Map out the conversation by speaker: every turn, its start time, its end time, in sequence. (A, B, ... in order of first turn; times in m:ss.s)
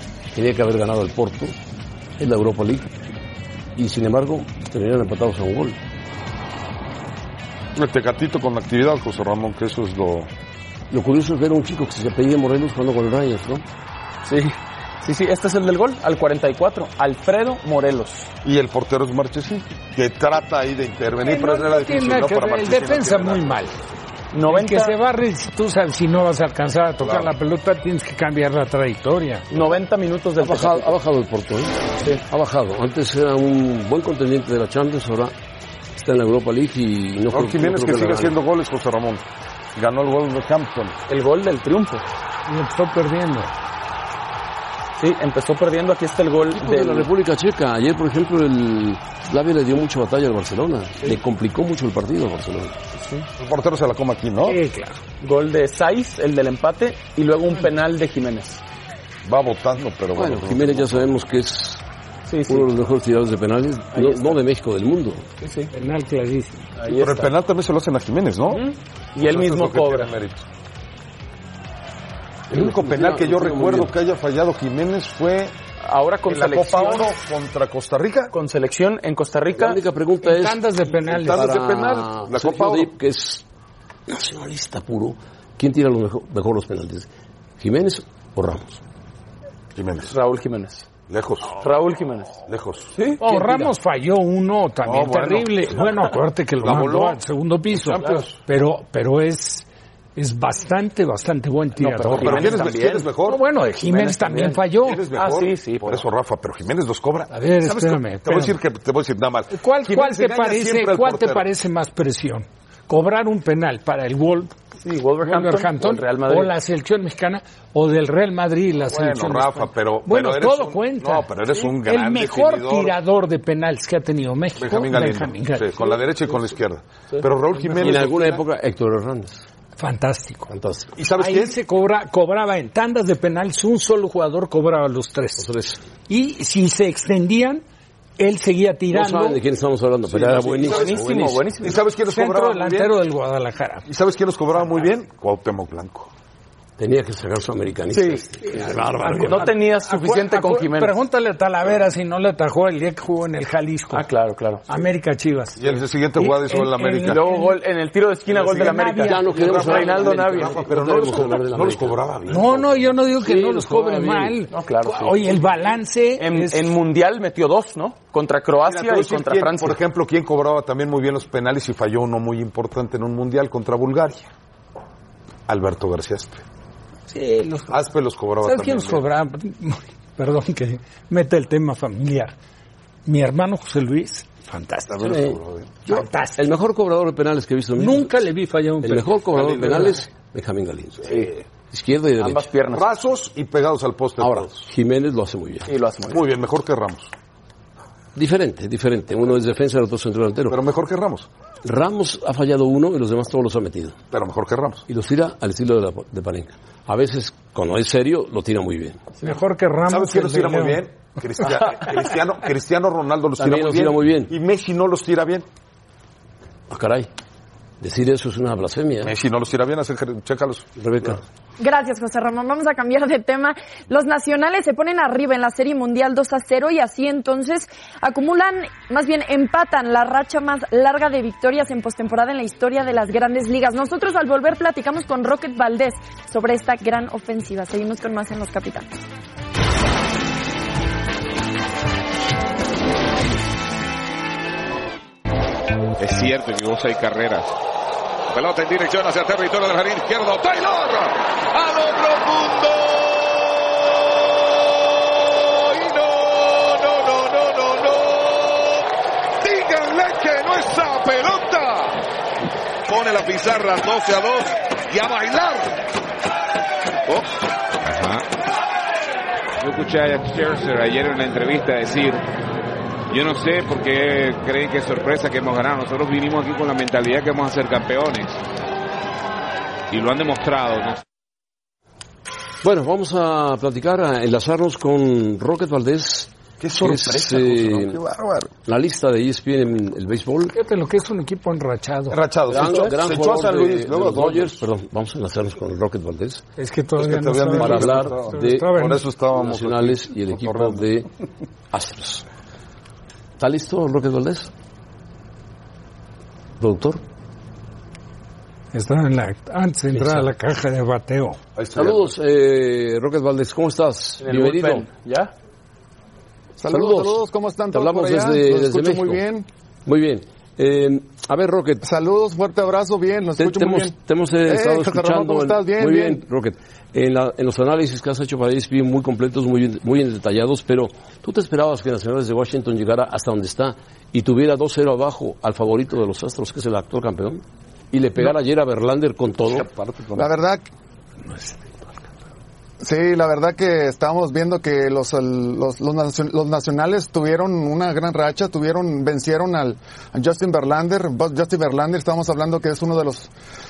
0:00.3-0:01.5 A
0:02.2-0:02.9 A
0:03.8-0:05.8 A
0:07.7-0:10.3 B
0:10.9-0:13.6 A
0:14.2-0:18.3 C
0:18.4-0:23.6 B
0:21.2-0:23.7 D
0:24.3-0:24.9 C
0:24.4-0:29.5 D
0:27.0-0:27.3 B
0:29.5-0:31.0 C
0:30.4-0:35.3 A
0:35.9-0:38.3 A
0:37.3-0:41.0 B
0:41.1-0:42.0 C
0:42.5-0:43.5 D
0:45.0-0:47.1 C
0:46.5-0:52.8 A
0:52.9-0:53.3 C
0:53.4-0:54.6 B
0:54.4-0:55.0 D
0:55.2-0:58.6 C
0:59.2-1:01.1 B
1:00.1-1:01.8 A
1:02.3-1:02.7 C
1:02.5-1:05.2 A
1:03.9-1:04.4 C
1:05.4-1:05.7 C
1:05.7-1:06.7 D
1:06.8-1:07.3 C
1:06.9-1:08.6 B
1:08.5-1:10.1 C
1:09.2-1:10.4 B
1:12.5-1:13.9 A
1:12.5-1:15.5 B
1:15.8-1:17.1 C
1:16.3-1:18.3 B
1:18.3-1:19.8 C
1:19.5-1:20.6 A
1:20.2-1:21.6 D
1:20.9-1:22.9 B
1:21.2-1:23.4 A
1:24.1-1:27.1 A
1:27.6-1:28.8 A
1:29.8-1:30.1 B
1:30.0-1:30.9 C
1:31.1-1:31.5 B
1:31.5-1:32.4 C
1:32.5-1:32.9 B
1:32.9-1:33.7 C
1:33.2-1:42.6 D
1:34.8-1:35.8 B
1:36.6-1:37.2 B
1:37.7-1:38.4 B
1:38.0-1:38.2 C
1:41.8-1:43.1 C
1:42.2-1:43.4 B
1:43.2-1:45.0 D
1:43.8-1:46.0 C
1:44.8-1:51.4 B
1:47.3-1:48.6 D
1:49.5-1:54.6 D
1:54.8-1:56.5 C
1:55.2-2:05.9 D
1:58.9-1:59.2 C
1:59.1-2:03.0 B
2:04.6-2:08.4 B
2:07.7-2:09.4 A
2:09.8-2:10.5 D
2:10.5-2:10.9 A
2:10.9-2:11.6 B
2:11.2-2:15.5 D
2:15.4-2:15.8 A
2:16.1-2:17.6 D
2:18.2-2:19.4 D
2:18.9-2:21.3 A
2:20.1-2:22.9 B
2:20.2-2:21.8 C
2:22.1-2:23.8 D
2:23.8-2:26.1 B
2:26.8-2:29.5 A
2:27.9-2:28.2 C
2:29.0-2:34.0 D
2:29.2-2:31.0 C
2:33.9-2:34.6 C
2:34.7-2:37.6 D
2:35.6-2:37.2 B
2:37.0-2:40.7 C
2:38.3-2:39.8 D
2:39.0-2:42.0 A
2:39.3-2:43.0 B
2:42.3-2:46.7 D
2:43.2-2:44.4 A
2:44.5-2:45.4 C
2:46.2-2:49.8 C
2:48.6-2:54.3 B
2:55.5-2:56.4 B
2:57.1-2:57.8 D
2:57.7-2:59.0 B
2:58.4-3:02.3 D
3:03.0-3:05.3 D
3:04.9-3:05.8 B
3:05.0-3:05.4 A
3:05.8-3:06.4 D
3:06.4-3:08.2 A
3:07.8-3:09.9 D
3:08.8-3:11.1 A
3:09.3-3:09.9 B
3:11.0-3:11.4 B
3:11.7-3:12.5 A
3:12.2-3:12.9 C
3:12.6-3:14.7 B
3:14.2-3:15.7 A
3:15.7-3:16.2 C
3:16.1-3:17.1 B
3:18.1-3:20.6 A
3:20.5-3:21.3 B
3:21.6-3:24.0 A
3:24.1-3:24.8 B
3:24.9-3:29.0 A
3:29.2-3:30.8 D
3:29.9-3:35.4 B
3:33.4-3:34.3 A
3:36.7-3:37.1 A
3:37.8-3:39.1 A
3:39.0-3:41.2 B
3:40.8-3:41.2 A
3:41.6-3:58.9 E
4:06.0-4:07.5 F
4:08.3-4:18.8 F
4:19.4-4:22.1 F
4:22.9-4:25.8 F
4:27.9-4:28.2 F
4:29.6-4:32.2 F
4:33.1-4:38.4 F
4:39.9-4:41.0 F
4:42.6-4:48.0 A
4:46.6-4:48.5 B
4:48.6-4:50.5 A
4:50.5-4:52.2 D
4:52.1-4:54.6 B
4:52.5-4:56.4 A
4:56.6-4:59.0 D
4:57.0-5:00.9 B
4:57.6-4:58.8 A
4:59.3-5:01.1 A
5:01.7-5:02.2 A
5:03.4-5:04.5 A
5:06.6-5:07.0 A
5:08.7-5:11.4 D
5:10.0-5:10.2 A
5:11.6-5:12.1 B
5:11.7-5:14.9 A
5:14.2-5:15.3 C
5:16.6-5:19.4 G
5:16.7-5:19.2 A
5:19.8-5:21.8 A
5:21.8-5:26.2 G
5:23.4-5:39.7 A
5:39.5-5:40.3 B
5:40.2-5:40.6 G
5:41.3-5:41.7 D
5:42.8-5:53.3 G